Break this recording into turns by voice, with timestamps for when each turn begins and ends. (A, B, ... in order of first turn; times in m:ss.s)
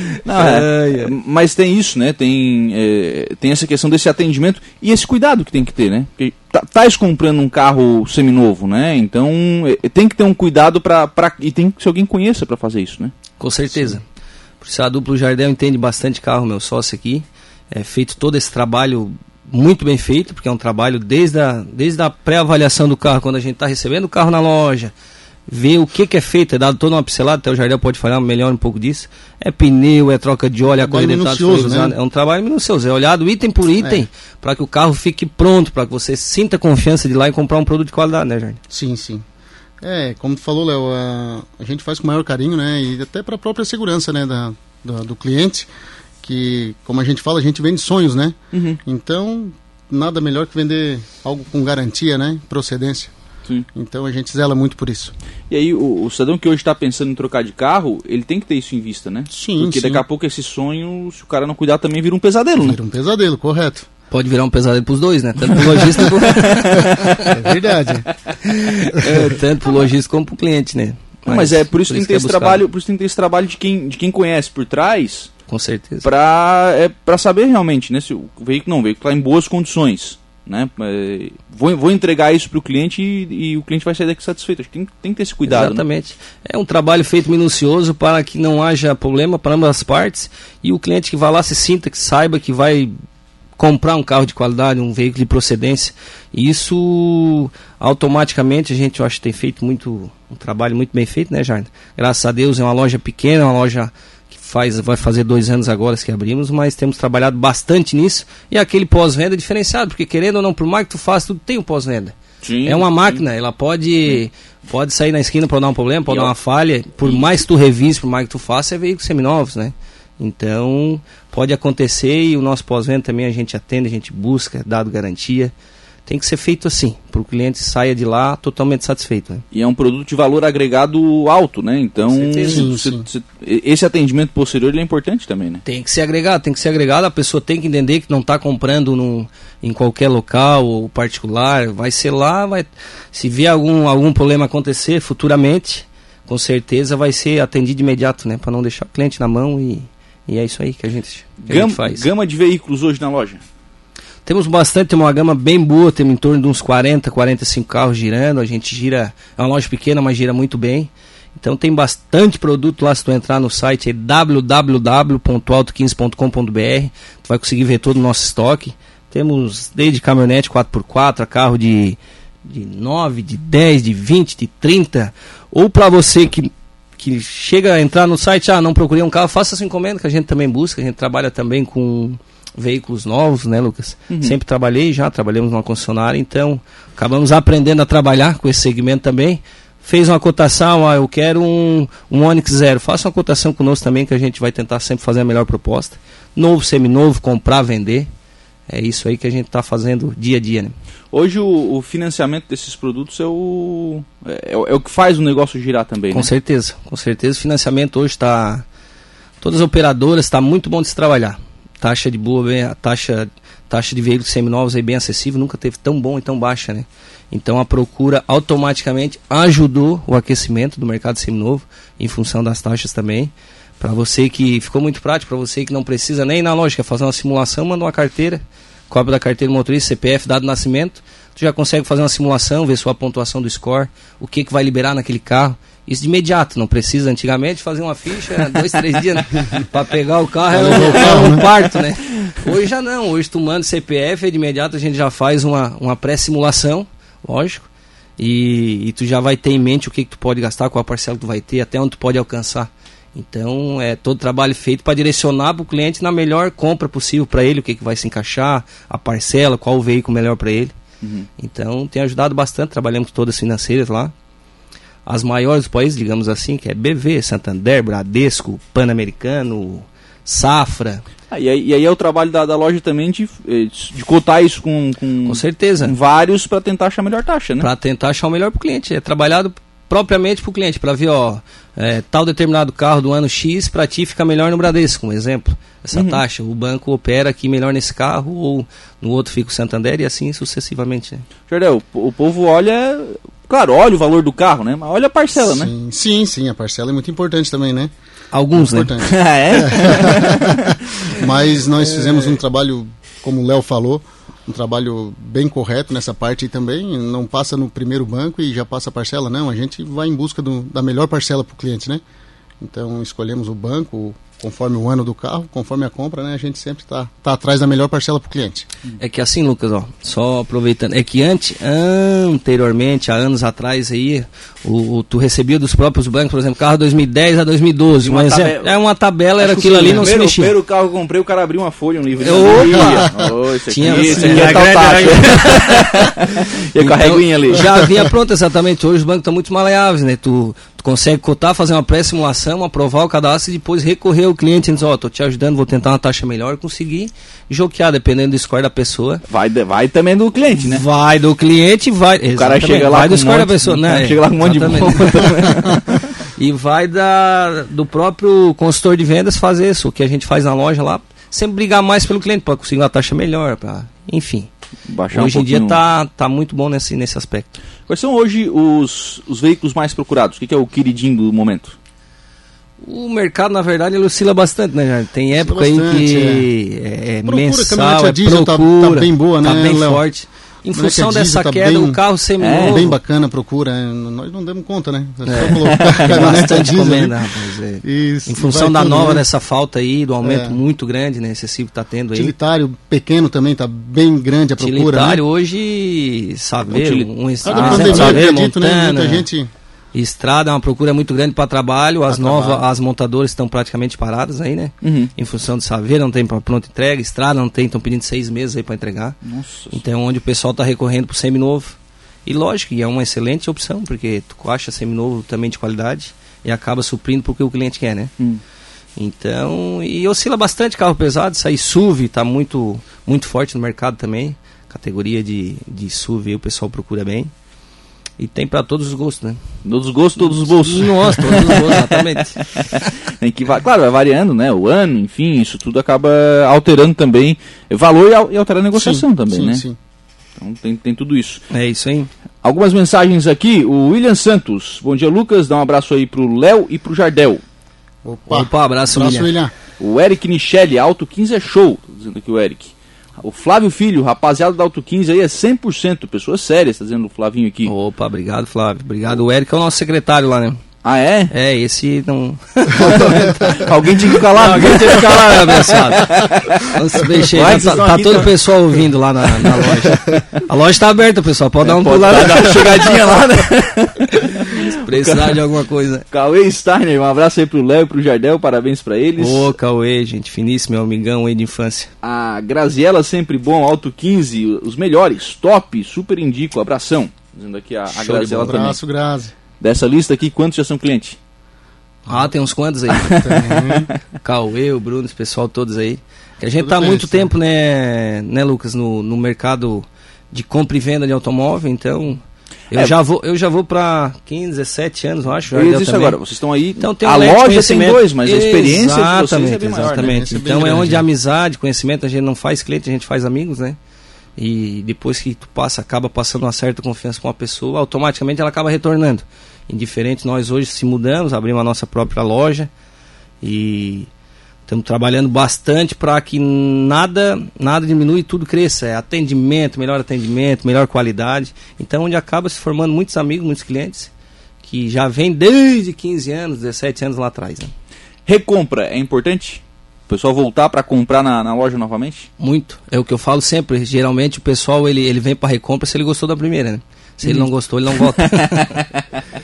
0:00.2-0:13.1 A
0:00.3-0:01.1 B
0:13.4-0:14.0 B
0:14.6-0:24.9 B
0:25.5-0:38.6 B
0:30.8-0:31.9 C
0:33.8-0:34.0 C
0:38.7-0:39.2 C
0:39.8-0:45.7 C
0:46.2-0:53.1 C
0:48.5-0:48.8 A
0:53.7-0:55.1 C
0:55.5-1:02.8 A
0:59.3-1:00.0 C
1:02.6-1:03.8 C
1:04.1-1:07.2 B
1:05.6-1:07.5 A
1:07.3-1:08.0 C
1:08.4-1:12.6 B
1:11.3-1:15.3 A
1:15.5-1:16.0 B
1:16.0-1:25.8 A
1:25.5-1:32.9 B
1:33.6-2:05.5 B
1:52.4-1:53.2 A
1:56.1-1:56.3 A
2:06.1-2:09.4 B
2:09.5-2:15.6 A
2:12.1-2:12.7 B
2:12.4-2:13.1 C
2:15.6-2:32.1 B
2:31.4-2:33.4 A
2:34.2-3:18.1 B
3:04.1-3:04.4 A
3:18.7-3:20.7 B
3:21.1-3:26.3 A
3:26.1-3:28.6 B
3:29.4-4:20.7 B
4:00.5-4:01.5 C
4:21.0-4:21.3 A
4:21.4-4:24.1 B
4:25.0-4:31.0 B
4:31.3-4:37.7 A
4:35.2-4:35.9 B
4:37.6-4:51.2 B
4:45.9-4:46.2 A
4:51.5-4:55.7 A
4:55.4-4:57.9 C
4:58.3-4:59.0 B
4:58.5-5:12.0 C
4:59.0-5:01.1 A
5:12.6-5:18.7 C
5:19.0-5:30.6 B
5:28.0-5:28.7 A
5:29.4-5:37.8 A
5:32.2-5:49.2 B
5:32.8-5:33.1 C
5:49.3-5:50.8 A
5:50.5-6:04.5 B
5:52.3-5:56.1 A
6:04.9-6:05.8 A
6:05.1-6:07.5 B
6:07.9-6:11.8 A
6:12.8-6:23.0 B
6:15.3-6:16.5 C
6:17.2-6:20.0 C
6:20.7-6:22.0 C
6:22.4-6:22.8 A
6:22.6-6:27.2 C
6:25.2-6:32.3 B
6:25.6-6:26.4 A
6:27.8-6:29.2 C
6:30.2-6:30.6 C
6:32.1-6:35.2 C
6:34.6-6:39.3 B
6:36.7-6:38.2 A
6:37.4-6:39.5 C
6:39.9-6:58.1 B
6:42.1-6:42.6 C
6:44.8-6:45.1 A
6:49.2-6:49.8 A
6:59.0-7:07.3 B
7:08.2-7:09.4 B
7:09.6-7:19.6 A
7:10.2-7:12.4 B
7:18.7-7:19.8 C
7:20.4-7:21.4 A
7:21.5-7:22.1 B
7:22.4-7:27.4 A
7:28.0-7:29.5 C
7:28.3-7:29.3 B
7:29.8-7:37.7 A
7:37.6-7:40.6 B
7:40.8-7:41.3 A
7:41.3-7:53.2 B
7:42.8-7:48.4 A
7:49.4-7:49.8 A
7:51.6-7:55.4 A
7:54.1-7:56.0 B
7:56.1-7:59.5 A
7:59.2-8:01.9 B
8:02.0-8:08.8 A
8:07.9-8:09.3 C
8:09.6-8:11.2 A
8:12.1-8:13.4 B
8:13.0-8:13.3 A
8:13.1-8:13.9 C
8:14.1-8:26.2 B
8:16.6-8:17.3 C
8:25.5-8:30.4 A
8:26.8-8:33.8 B
8:29.7-8:31.0 C
8:34.4-8:42.7 B
8:43.4-8:44.1 B
8:44.7-8:54.1 B
8:54.6-8:57.7 B
8:58.2-9:02.3 A
9:02.4-9:08.9 B
9:07.2-9:08.6 A